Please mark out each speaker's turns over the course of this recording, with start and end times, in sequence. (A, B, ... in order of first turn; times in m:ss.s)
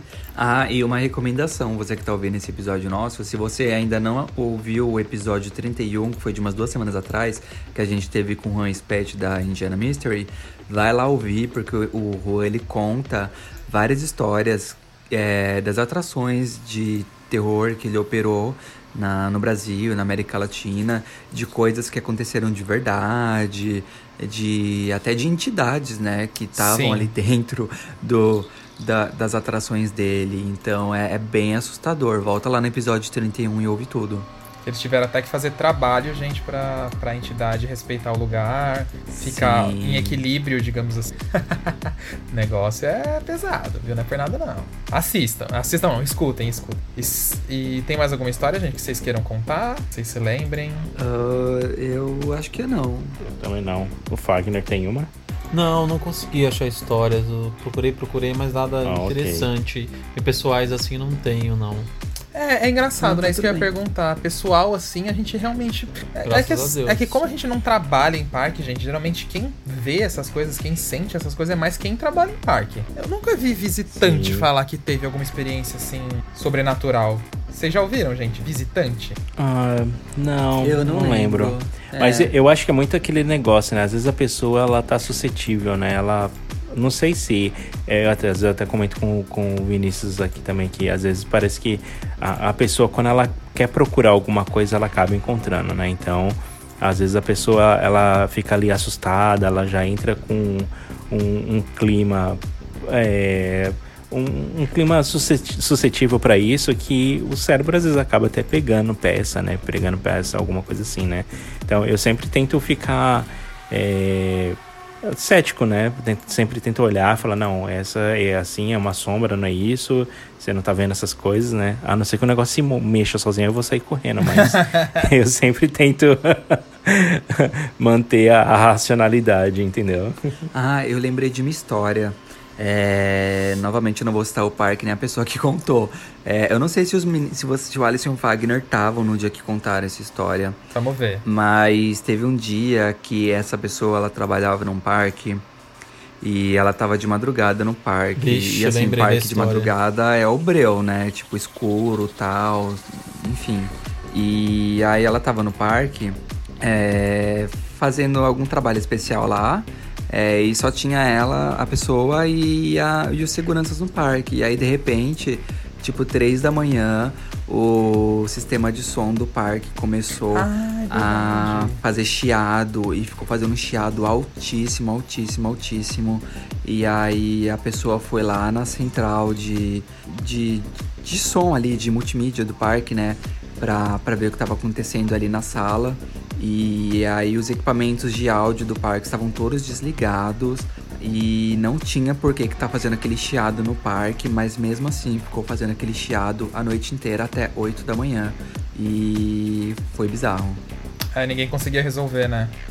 0:00.4-0:34.3 A
0:26.6-0:27.1 B
0:34.6-0:50.9 B
0:39.1-0:40.2 A
0:51.0-0:53.2 A
0:53.2-0:55.1 C
0:55.5-1:01.9 D
0:58.8-0:59.5 C
1:02.3-1:19.2 B
1:03.0-1:03.7 A
1:06.2-1:07.2 D
1:13.9-1:14.5 C
1:19.4-2:10.4 C
1:20.6-1:22.3 A
2:04.3-2:05.0 B
2:10.5-2:20.6 A
2:20.7-2:21.2 B
2:21.2-2:25.4 A
2:26.2-3:20.6 A
2:28.2-2:29.7 D
2:50.3-2:51.8 B
3:21.2-3:22.6 B